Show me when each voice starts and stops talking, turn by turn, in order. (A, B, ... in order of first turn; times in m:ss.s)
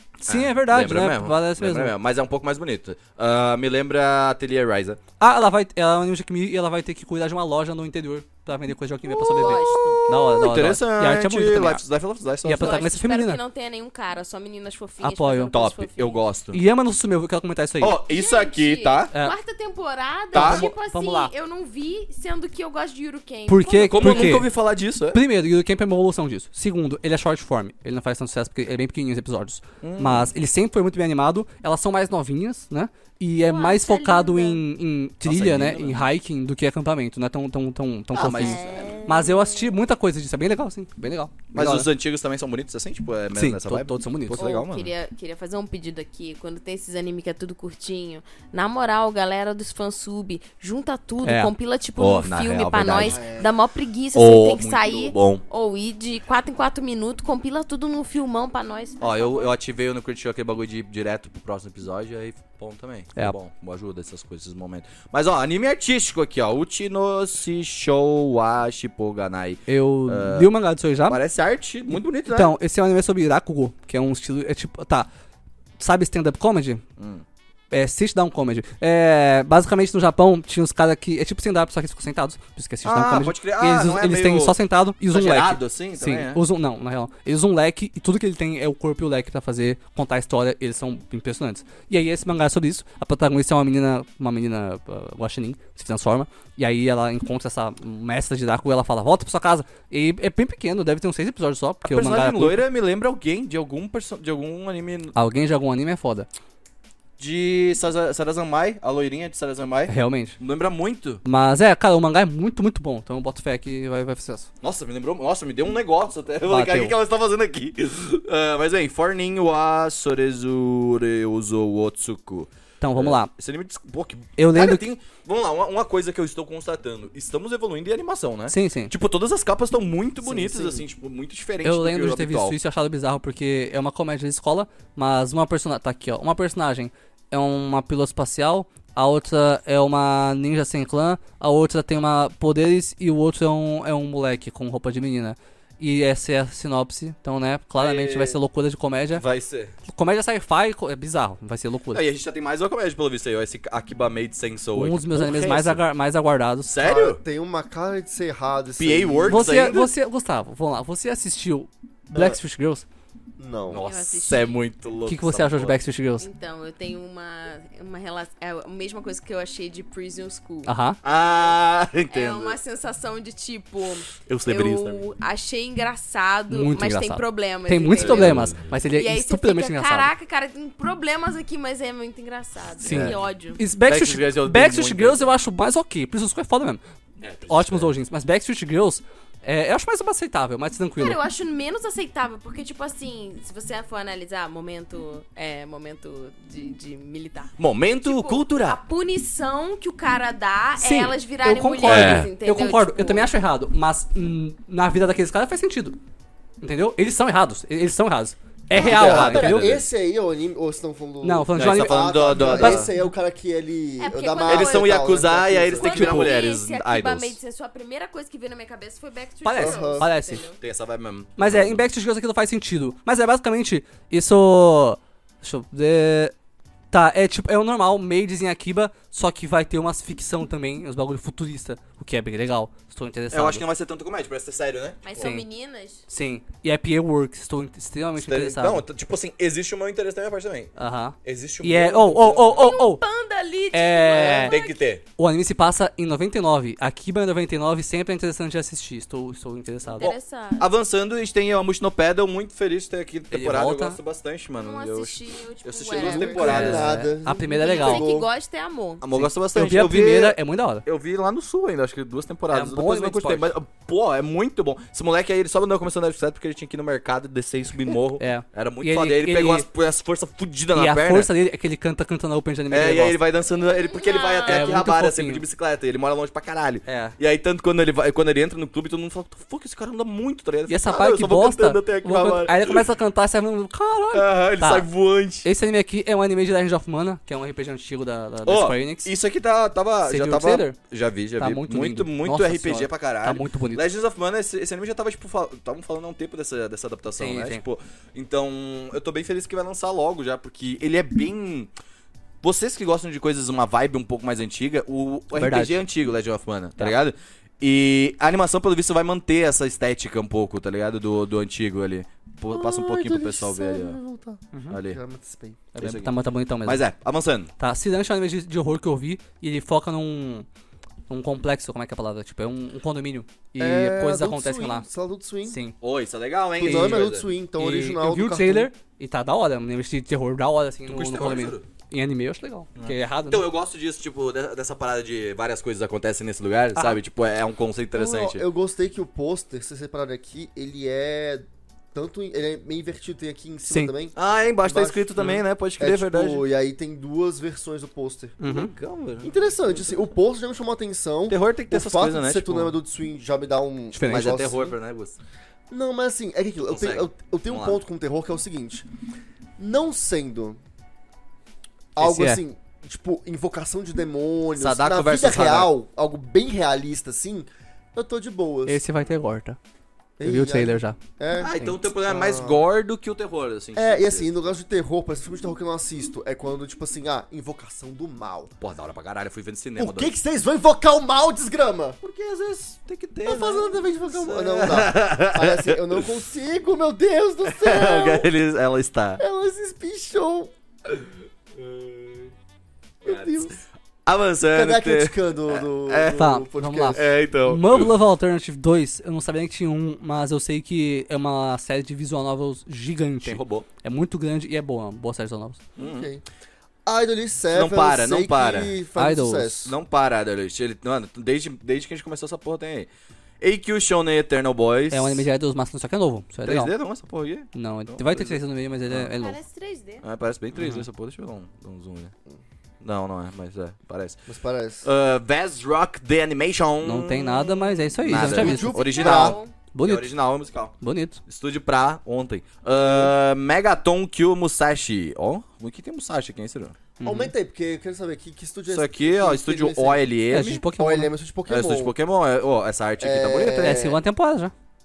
0:00.2-0:01.9 A
0:00.2-0:05.0 B
0:05.2-0:11.8 A
0:09.2-0:12.9 B
0:09.3-0:10.0 C
0:12.4-0:13.4 A
0:12.6-0:16.2 C
0:15.0-0:15.5 A
0:15.5-0:16.6 B
0:16.5-0:18.0 A
0:17.8-0:19.1 B
0:18.0-0:24.4 C
0:20.3-0:20.7 B
0:20.3-0:21.3 A
0:23.5-0:24.5 A
0:23.9-0:25.2 B
0:25.1-0:41.9 A
0:29.8-0:30.3 B
0:33.4-0:34.6 C
0:35.2-0:36.0 B
0:38.1-0:39.0 B
0:38.3-0:39.7 C
0:41.5-0:44.9 B
0:43.3-0:44.5 A
0:44.4-0:59.5 C
0:51.2-0:51.5 A
0:52.0-0:53.2 B
0:53.0-0:53.5 D
0:54.1-0:55.4 B
0:59.0-1:10.5 B
1:09.7-1:11.2 A
1:11.1-1:12.5 B
1:11.9-1:15.1 A
1:15.8-1:16.8 A
1:17.0-1:17.2 B
1:17.7-1:42.6 A
1:22.8-1:24.6 B
1:25.1-1:26.4 B
1:41.8-1:45.1 B
1:45.1-1:46.3 A
1:47.2-1:51.2 B
1:49.9-1:50.4 A
1:51.2-1:54.5 A
1:54.6-2:12.6 B
1:56.5-1:56.9 A
2:02.8-2:03.3 A
2:04.4-2:04.8 A
2:08.5-2:08.9 A
2:10.2-2:10.8 A
2:11.6-2:29.2 A
2:27.8-2:28.4 B
2:29.1-2:29.7 B
2:29.9-2:32.0 A
2:31.9-2:35.8 B
2:34.7-2:36.7 A
2:36.6-2:37.2 B
2:36.8-2:39.6 D
2:38.8-2:39.9 B
2:39.3-2:42.8 A
2:42.1-2:42.4 D
2:43.4-2:43.8 D
2:43.7-2:45.8 B
2:43.8-2:44.6 C
2:45.0-2:46.3 A
2:46.2-2:50.7 C
2:50.6-2:51.0 A
2:51.0-2:52.6 B
2:51.2-2:51.6 C
2:52.1-3:03.6 C
2:54.2-2:55.0 B
2:56.5-3:00.1 A
2:58.0-2:58.7 B
3:02.8-3:06.8 A
3:02.8-3:03.2 B
3:03.8-3:05.3 B
3:07.2-3:07.9 B
3:07.5-3:11.2 A
3:11.0-3:17.5 C
3:17.6-3:18.8 B
3:18.0-3:23.3 C
3:20.8-3:26.0 A
3:21.8-3:22.3 B
3:26.6-3:29.7 A
3:28.8-3:36.2 D
3:28.8-3:29.8 B
3:31.2-3:33.1 A
3:31.6-3:32.9 B
3:34.0-3:35.2 C
3:34.4-3:37.4 B
3:35.8-3:40.6 C
3:35.9-3:36.3 A
3:39.4-3:40.4 A
3:39.6-3:40.1 D
3:40.6-3:41.8 B
3:41.4-3:46.3 A
3:46.9-3:53.6 A
3:53.3-3:55.3 B
3:55.0-3:56.0 C
3:55.2-3:55.4 A
3:56.1-3:58.8 A
3:58.2-4:00.7 B
4:00.8-4:03.0 A
4:01.2-4:02.6 B
4:02.5-4:04.8 C
4:03.7-4:04.6 A
4:04.2-4:05.0 B
4:05.2-4:10.1 A
4:10.0-4:10.7 C
4:10.0-4:16.9 B
4:13.3-4:14.0 A
4:14.5-4:16.8 C
4:15.9-4:18.3 D
4:16.4-4:18.1 A
4:17.5-4:19.0 C
4:19.0-4:31.3 B
4:19.1-4:20.8 A
4:22.5-4:23.5 A
4:28.2-4:29.6 A
4:30.7-4:33.2 A
4:32.7-4:42.8 B
4:33.6-4:34.8 C
4:34.4-4:35.4 A
4:36.8-4:37.2 A
4:40.7-4:44.9 A
4:44.1-4:45.5 B
4:45.4-4:49.1 A
4:48.4-5:01.7 B
4:50.0-4:50.8 A
4:51.4-4:53.8 A
4:57.2-4:57.6 A
5:02.4-5:14.0 B
5:05.3-5:05.8 A
5:12.5-5:15.6 D
5:14.5-5:14.8 A
5:14.7-5:15.0 B
5:15.7-5:16.8 A
5:15.8-5:16.1 B
5:16.6-5:17.5 B
5:17.6-5:20.4 A
5:21.1-5:24.8 A
5:23.6-5:25.6 D
5:25.5-5:25.7 A
5:25.8-5:27.2 B
5:26.6-5:28.7 D
5:26.6-5:27.0 A
5:27.6-5:33.4 A
5:30.8-5:31.6 B
5:32.8-5:38.4 B
5:37.9-5:45.1 D
5:44.2-5:46.4 B
5:45.8-5:48.4 D
5:48.4-5:48.7 A
5:48.4-5:49.3 B
5:49.2-5:54.7 D
5:51.3-5:52.7 B
5:53.9-5:54.4 A
5:54.0-5:55.2 B
5:55.7-5:58.9 D
5:56.7-5:57.8 B
5:59.6-6:00.6 D
6:02.0-6:08.8 D
6:02.0-6:02.4 A
6:04.6-6:05.7 B
6:08.7-6:09.6 A
6:10.2-6:12.6 D
6:10.2-6:11.0 A
6:11.3-6:14.4 B
6:13.8-6:18.5 D
6:18.6-6:20.1 B
6:19.8-6:22.0 D
6:22.0-6:26.1 B
6:23.2-6:28.3 D
6:27.4-6:29.2 B
6:29.2-6:30.5 D
6:31.6-6:32.3 B
6:33.0-6:33.6 D
6:33.0-6:36.4 B
6:34.5-6:37.0 D
6:36.2-6:45.6 A
6:36.9-6:37.9 B
6:43.2-6:43.7 B
6:45.8-6:46.1 B
6:45.8-6:46.2 D
6:46.8-6:49.7 D
6:47.5-6:48.7 B
6:49.0-6:49.6 A
6:49.6-6:52.9 B
6:53.4-6:55.2 B
6:54.9-6:56.7 A
6:56.4-6:59.1 B
6:57.5-6:59.4 A
6:59.2-7:00.0 C
7:00.0-7:02.1 B
7:00.5-7:00.8 A
7:02.8-7:04.2 B
7:04.3-7:04.8 D
7:04.8-7:10.7 B
7:06.8-7:08.7 A
7:08.1-7:09.4 D
7:08.4-7:09.5 C
7:09.7-7:10.1 A
7:10.8-7:11.2 A
7:11.3-7:16.8 B
7:17.0-7:17.3 A
7:17.0-7:20.0 D
7:18.7-7:20.6 B
7:20.3-7:21.1 A
7:20.8-7:21.9 D
7:21.5-7:23.8 B
7:23.0-7:24.0 D
7:23.6-7:24.5 A